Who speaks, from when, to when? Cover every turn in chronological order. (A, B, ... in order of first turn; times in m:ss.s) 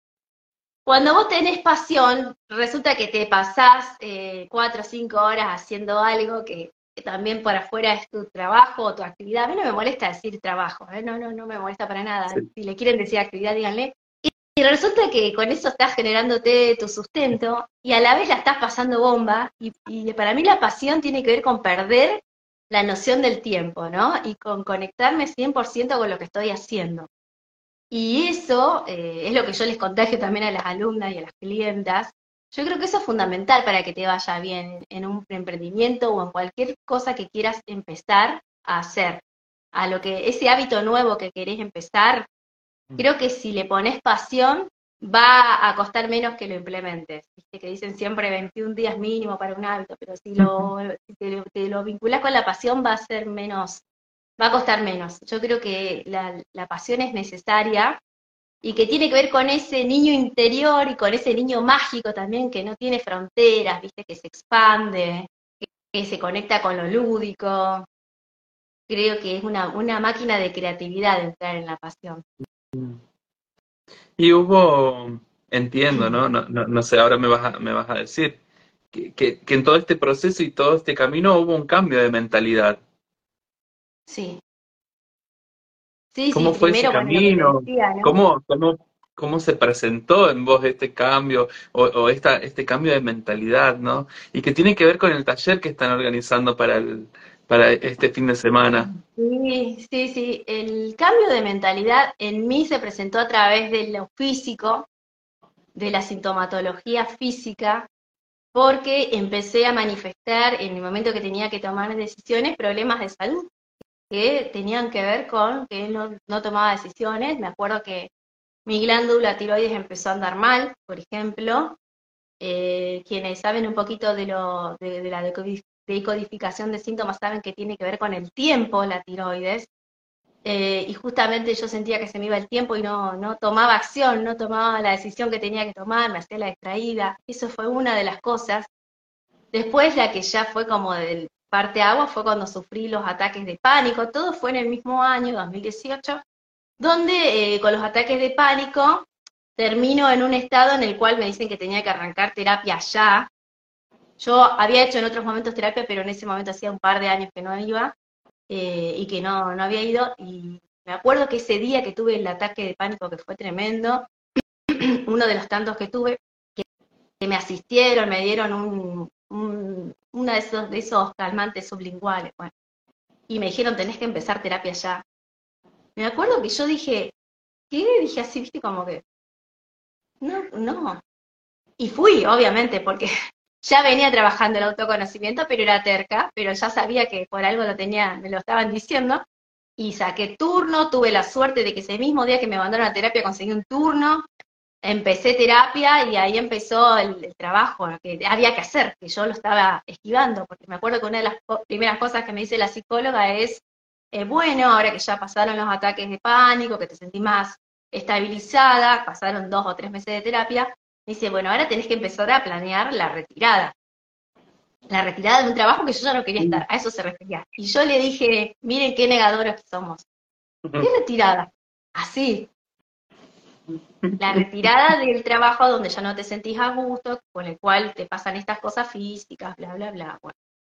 0:00.9-0:27.1 A
0:27.9-0:39.2 A
0:39.7-0:42.3 A
0:43.0-0:53.8 A
0:50.4-0:50.7 B
0:54.4-0:58.0 A
0:58.6-1:07.9 A
1:08.9-1:12.2 A
1:12.7-1:13.0 B
1:14.2-1:18.4 B
1:15.9-1:16.2 A
1:18.9-1:22.8 B
1:24.1-1:24.4 A
1:26.1-1:28.1 A
1:26.3-1:38.9 B
1:38.8-1:44.9 A
1:45.8-1:47.9 A
1:48.5-1:53.5 A
1:54.1-1:58.1 A
1:58.7-2:01.8 A
2:02.4-2:09.7 A
2:10.4-2:18.7 A
2:19.5-2:26.2 A
2:26.8-2:29.1 A
2:29.6-2:33.3 A
2:34.2-2:38.0 A
2:38.5-2:44.1 A
2:45.1-2:46.6 A
2:47.2-2:52.5 A
2:53.3-2:55.0 A
2:56.0-2:57.1 A
2:57.7-2:59.0 A
3:00.2-3:01.0 A
3:01.8-3:03.1 A
3:03.6-3:09.2 A
3:09.8-3:14.3 A
3:14.8-3:33.7 A
3:34.9-3:40.1 A
3:40.8-3:42.5 A
3:44.0-3:44.4 B
3:44.2-3:50.3 A